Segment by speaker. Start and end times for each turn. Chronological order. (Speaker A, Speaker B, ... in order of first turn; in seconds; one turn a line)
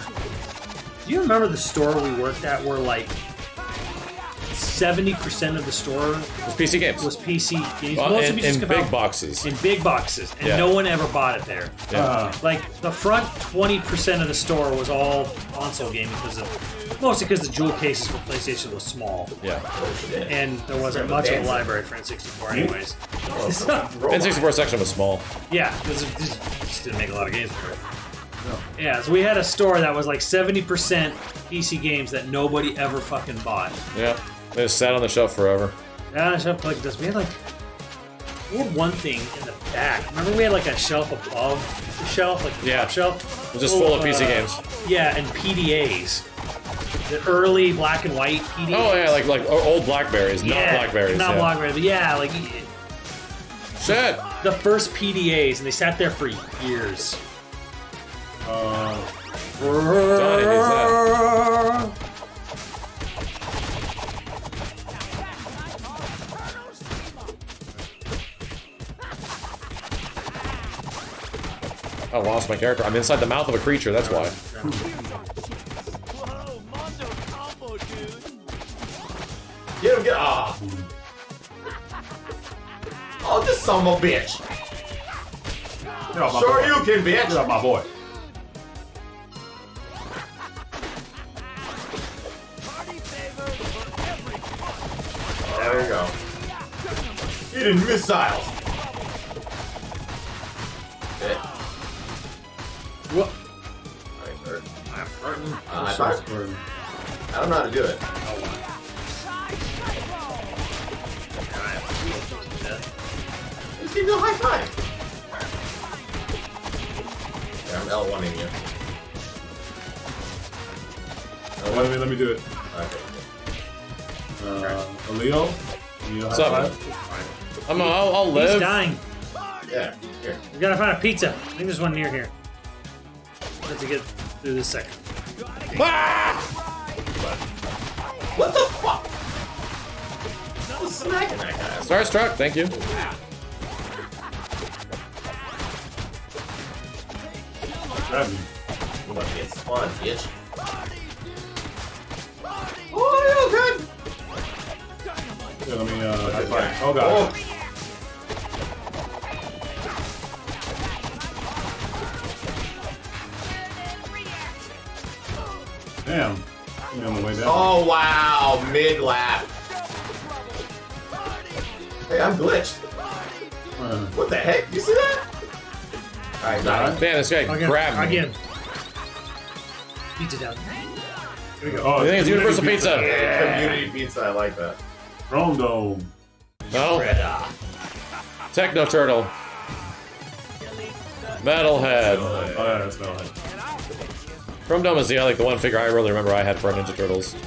Speaker A: 1.0-3.1
Speaker A: 4.5-6.3
Speaker B: 6.5-7.1
Speaker A: 7.0-19.3
Speaker B: 7.9-9.5
Speaker B: 10.4-10.8
Speaker B: 11.9-12.2
Speaker C: 11.9-12.4
Speaker D: 19.7-21.7
Speaker A: 20.3-23.9
Speaker C: 22.5-22.8
Speaker D: 23.2-24.6
Speaker B: 24.1-25.3
Speaker A: 25.5-27.8
Speaker A: 28.8-33.8
Speaker B: 33.9-35.8
Speaker A: 36.1-37.4
Speaker A: 38.5-46.2
Speaker B: 42.6-42.9
Speaker B: 43.5-44.6
Speaker A: 47.0-49.2
Speaker B: 48.7-51.5
Speaker A: 50.4-52.7
Speaker B: 53.8-54.2
Speaker A: 54.4-57.2
Speaker C: 58.4-59.1
Speaker A: 59.6-61.9
Speaker B: 60.1-61.0
Speaker B: 72.1-74.4
Speaker C: 74.0-74.9
Speaker D: 79.8-80.6
Speaker C: 80.6-80.9
Speaker D: 83.2-84.4
Speaker C: 86.1-87.9
Speaker D: 86.3-87.4
Speaker D: 95.5-96.1
Speaker A: 95.5-95.9
Speaker D: 97.5-98.5
Speaker A: 103.1-103.3
Speaker D: 104.2-104.6
Speaker A: 104.9-105.6
Speaker D: 105.7-106.2
Speaker C: 105.7-106.6
Speaker D: 107.3-108.0
Speaker A: 108.2-108.6
Speaker A: 111.5-112.8
Speaker D: 113.8-114.7
Speaker D: 117.6-118.5
Speaker D: 121.6-122.0
Speaker C: 121.6-122.4
Speaker D: 122.7-123.2
Speaker C: 124.4-126.8
Speaker B: 126.3-126.8
Speaker A: 126.5-129.0
Speaker B: 127.7-128.8
Speaker D: 129.7-130.4
Speaker A: 130.5-132.3
Speaker A: 133.6-135.0
Speaker B: 135.7-136.5
Speaker D: 138.3-139.1
Speaker D: 140.7-142.1
Speaker B: 141.8-142.8
Speaker D: 142.7-143.2
Speaker C: 147.9-148.5
Speaker D: 149.1-150.3
Speaker D: 152.9-153.9
Speaker C: 155.6-157.3
Speaker D: 156.2-157.3
Speaker C: 166.0-167.7
Speaker D: 167.4-169.5
Speaker D: 172.1-172.8
Speaker C: 173.8-174.2
Speaker D: 174.1-175.2
Speaker D: 176.4-177.0
Speaker C: 176.5-177.0
Speaker B: 176.9-178.2
Speaker A: 177.5-178.4
Speaker A: 180.2-181.0
Speaker C: 181.6-183.8
Speaker B: 181.9-183.2
Speaker A: 182.7-183.9
Speaker D: 183.0-184.8
Speaker C: 185.3-186.1
Speaker B: 186.7-187.1
Speaker D: 186.7-187.5
Speaker B: 188.5-189.3
Speaker B: 191.4-192.5
Speaker D: 191.7-192.8
Speaker C: 192.5-193.3
Speaker B: 194.7-197.3